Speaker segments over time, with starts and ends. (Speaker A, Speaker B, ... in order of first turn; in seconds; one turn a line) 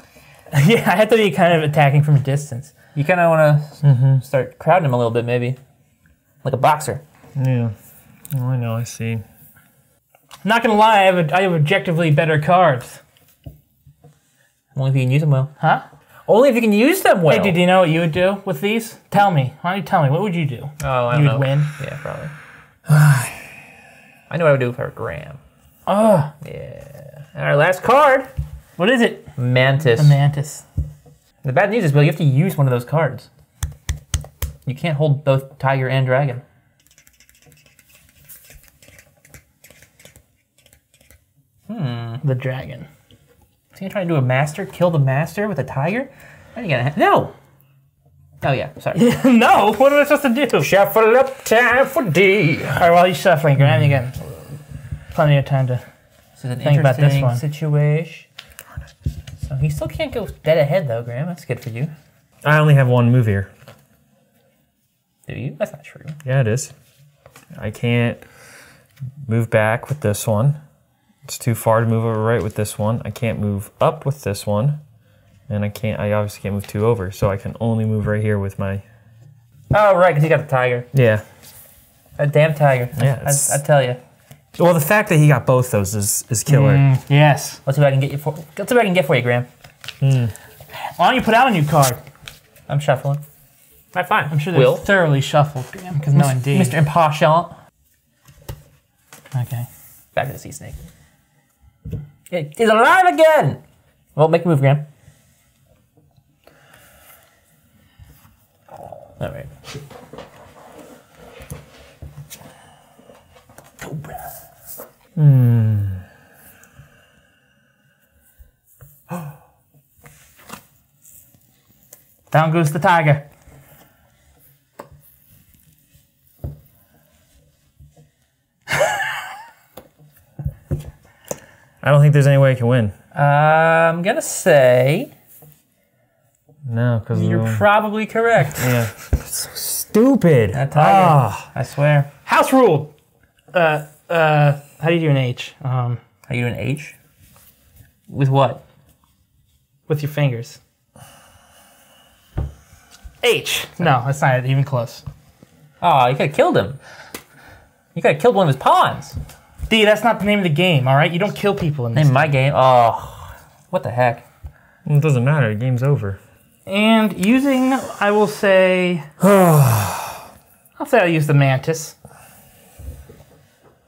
Speaker A: 0.5-2.7
Speaker B: 2.9-5.6
Speaker C: 3.8-4.2
Speaker B: 6.4-7.0
Speaker C: 7.4-7.8
Speaker C: 8.3-9.2
Speaker A: 10.4-13.0
Speaker B: 14.8-15.5
Speaker B: 16.3-17.6
Speaker A: 17.3-21.7
Speaker B: 20.8-22.3
Speaker C: 22.9-23.4
Speaker B: 24.3-25.4
Speaker A: 25.9-26.3
Speaker B: 26.4-28.3
Speaker A: 28.8-29.3
Speaker B: 29.4-30.2
Speaker A: 30.0-30.6
Speaker B: 31.4-33.3
Speaker B: 34.7-36.4
Speaker B: 41.7-42.2
Speaker A: 42.2-42.9
Speaker B: 43.7-47.3
Speaker B: 48.4-49.0
Speaker A: 49.0-50.7
Speaker B: 50.6-52.8
Speaker A: 52.8-54.4
Speaker A: 55.1-55.8
Speaker B: 56.4-58.3
Speaker A: 56.6-57.4
Speaker B: 59.4-61.9
Speaker C: 62.4-63.5
Speaker B: 65.3-66.2
Speaker C: 66.2-66.7
Speaker C: 67.5-68.2
Speaker C: 69.3-70.6
Speaker C: 71.3-74.8
Speaker C: 75.5-78.8
Speaker B: 79.7-80.9
Speaker C: 80.9-81.2
Speaker B: 82.2-84.0
Speaker C: 83.0-83.6
Speaker C: 84.6-86.8
Speaker A: 86.5-87.6
Speaker B: 87.7-89.5
Speaker C: 90.0-90.3
Speaker A: 90.9-92.0
Speaker B: 92.7-93.2
Speaker B: 93.9-94.8
Speaker A: 94.3-96.8
Speaker B: 96.1-97.5
Speaker A: 99.3-99.7
Speaker B: 100.1-100.8
Speaker B: 102.3-103.6
Speaker B: 104.2-104.8
Speaker B: 109.2-109.5
Speaker C: 115.2-116.0
Speaker A: 122.3-123.2
Speaker C: 131.8-132.9
Speaker B: 133.1-135.1
Speaker C: 136.7-137.6
Speaker B: 137.1-138.8
Speaker C: 138.6-141.5
Speaker B: 140.5-142.1
Speaker A: 142.3-142.9
Speaker A: 143.5-146.0
Speaker B: 146.3-147.0
Speaker B: 148.1-148.6
Speaker A: 149.9-150.6
Speaker A: 153.2-155.0
Speaker B: 155.8-156.8
Speaker B: 157.9-159.2
Speaker A: 159.7-162.3
Speaker B: 161.9-164.2
Speaker C: 164.8-166.2
Speaker A: 166.7-169.1
Speaker C: 169.2-170.2
Speaker A: 170.8-171.9